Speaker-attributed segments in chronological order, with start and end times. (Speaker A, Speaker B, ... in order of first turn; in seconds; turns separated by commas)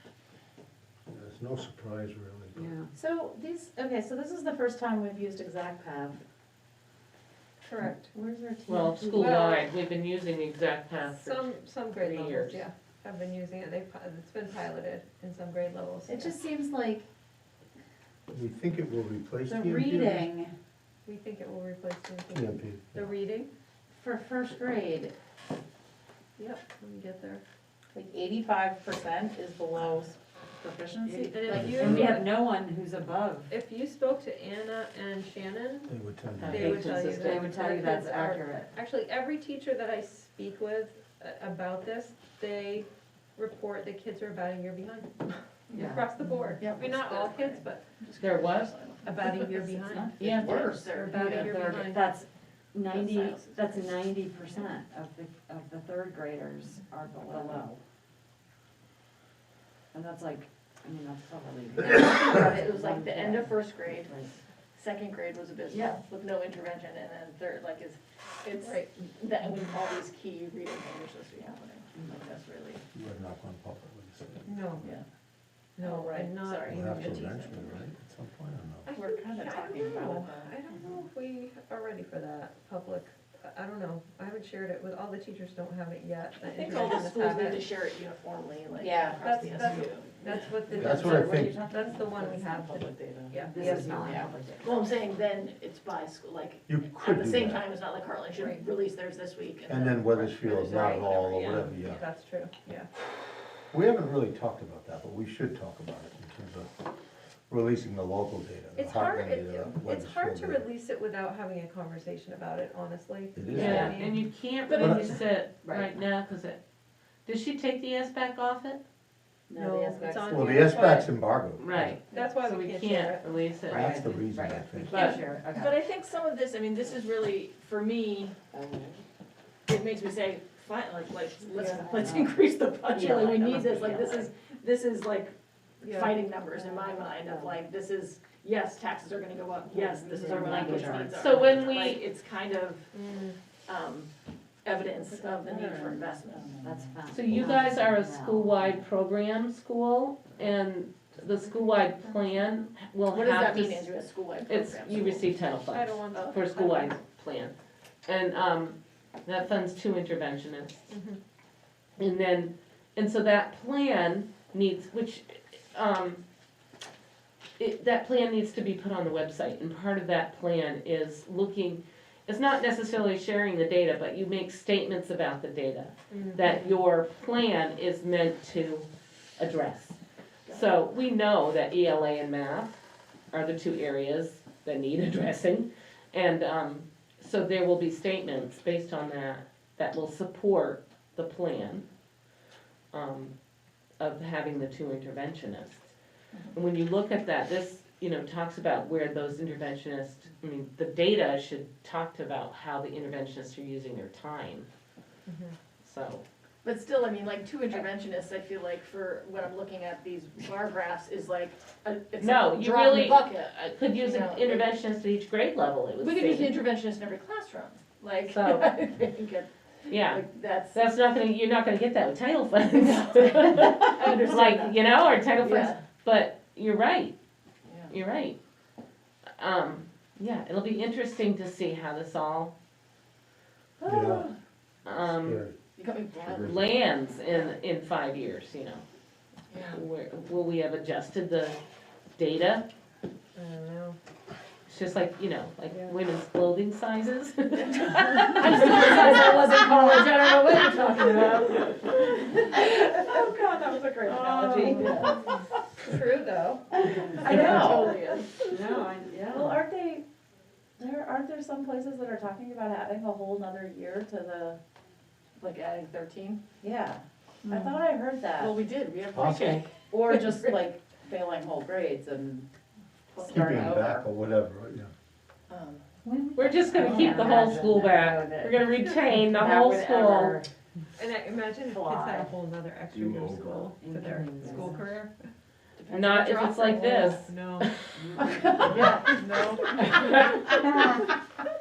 Speaker A: 1.1-2.8, Speaker B: 2.5-2.9, Speaker C: 2.9-6.2, Speaker D: 7.6-8.1, Speaker C: 8.1-9.3, Speaker E: 8.7-12.6, Speaker D: 9.2-9.7, Speaker D: 11.1-16.4, Speaker C: 16.1-17.1, Speaker A: 18.3-20.3, Speaker C: 19.5-20.5, Speaker D: 21.1-23.5, Speaker A: 22.3-23.1, Speaker C: 23.9-25.1, Speaker D: 26.4-27.4, Speaker C: 27.9-32.2, Speaker B: 31.0-33.5, Speaker D: 31.3-32.4, Speaker A: 31.7-32.1, Speaker D: 33.5-35.9, Speaker A: 35.9-36.7, Speaker E: 36.4-37.4, Speaker D: 36.5-47.9, Speaker B: 36.5-38.7, Speaker B: 45.7-46.1, Speaker F: 46.6-49.6, Speaker E: 48.2-48.7, Speaker D: 49.0-50.3, Speaker C: 49.6-50.9, Speaker F: 50.2-51.9, Speaker D: 50.9-52.1, Speaker B: 51.1-57.8, Speaker F: 52.8-54.0, Speaker B: 59.9-64.3, Speaker C: 61.9-62.5, Speaker F: 62.1-64.2, Speaker F: 64.7-72.8, Speaker B: 65.7-66.0, Speaker D: 68.6-68.9, Speaker A: 72.9-74.7, Speaker D: 74.5-74.9, Speaker F: 74.8-75.0, Speaker D: 75.8-77.8, Speaker F: 75.8-77.8, Speaker A: 76.7-78.9, Speaker D: 78.9-87.6, Speaker C: 78.9-80.7, Speaker F: 86.4-90.1, Speaker C: 88.8-89.8, Speaker D: 89.2-94.7, Speaker A: 90.8-91.5, Speaker B: 90.8-91.3, Speaker C: 91.7-94.7, Speaker B: 93.4-94.8, Speaker F: 94.6-101.7, Speaker A: 96.7-97.6, Speaker A: 99.7-102.1, Speaker D: 100.5-102.9, Speaker A: 103.7-106.7, Speaker A: 107.5-110.7, Speaker D: 108.8-114.2, Speaker A: 113.3-114.0, Speaker E: 113.5-116.6, Speaker A: 114.8-115.2, Speaker E: 117.2-118.8, Speaker C: 119.5-120.9, Speaker D: 119.5-121.1, Speaker A: 120.3-122.0, Speaker E: 121.6-124.1, Speaker D: 122.1-123.5, Speaker A: 123.7-125.1, Speaker B: 123.7-125.8, Speaker F: 124.9-128.4, Speaker E: 124.9-125.2, Speaker B: 128.6-129.0, Speaker F: 129.7-142.9, Speaker C: 131.6-131.9, Speaker B: 131.9-132.3, Speaker B: 132.9-134.2, Speaker C: 133.3-134.2, Speaker D: 135.9-136.2, Speaker C: 139.7-141.2, Speaker B: 140.1-141.4, Speaker E: 141.1-142.0, Speaker D: 142.9-143.4, Speaker F: 143.7-144.1, Speaker F: 144.6-146.8, Speaker C: 145.2-145.9, Speaker B: 146.6-148.8, Speaker E: 147.1-153.9, Speaker D: 151.5-152.5, Speaker F: 153.1-155.3, Speaker E: 154.5-157.5, Speaker D: 155.7-156.4, Speaker F: 156.1-156.9, Speaker E: 158.1-160.9, Speaker D: 160.9-161.2, Speaker E: 162.0-166.2, Speaker E: 167.6-180.0, Speaker D: 176.1-176.5, Speaker F: 180.5-180.7, Speaker E: 180.5-191.9, Speaker E: 192.9-193.3, Speaker E: 194.0-195.9, Speaker E: 196.5-204.7, Speaker D: 205.3-205.6, Speaker E: 205.8-206.2, Speaker F: 206.6-214.8, Speaker E: 212.2-216.6, Speaker F: 216.0-220.8, Speaker E: 218.3-218.8, Speaker E: 219.9-227.2, Speaker F: 222.7-224.8, Speaker F: 225.4-225.8, Speaker F: 227.6-227.9, Speaker E: 227.9-228.4, Speaker E: 229.4-232.6, Speaker F: 233.8-234.4, Speaker A: 233.8-234.3, Speaker E: 234.8-235.5, Speaker A: 235.1-235.6, Speaker F: 235.8-237.6, Speaker A: 236.2-236.6, Speaker E: 236.3-238.8, Speaker F: 239.5-239.8, Speaker E: 239.7-241.6, Speaker E: 242.2-242.7, Speaker D: 243.3-244.0, Speaker E: 244.7-251.3, Speaker D: 245.7-246.0, Speaker F: 247.6-255.3, Speaker D: 248.8-249.3, Speaker D: 254.2-257.3, Speaker E: 254.4-255.0, Speaker F: 256.8-258.3, Speaker B: 257.0-257.9, Speaker C: 257.3-258.0, Speaker B: 258.4-259.6, Speaker C: 259.2-260.0, Speaker C: 260.8-264.6, Speaker F: 265.4-266.4, Speaker C: 266.6-268.5, Speaker F: 267.5-267.7, Speaker F: 268.4-270.6, Speaker A: 269.1-269.6, Speaker C: 269.9-272.5, Speaker F: 273.1-273.8, Speaker B: 273.1-274.0, Speaker A: 273.2-274.9, Speaker F: 275.5-275.9, Speaker B: 276.1-280.5, Speaker E: 276.4-280.4, Speaker D: 278.8-279.2, Speaker D: 281.0-285.1, Speaker B: 281.6-282.3, Speaker A: 282.9-283.7, Speaker B: 283.8-285.0, Speaker F: 285.8-287.2, Speaker E: 285.9-287.7, Speaker D: 287.3-287.8, Speaker B: 288.0-289.0, Speaker F: 288.2-288.9, Speaker C: 288.7-289.9, Speaker D: 289.1-290.9, Speaker E: 289.8-290.6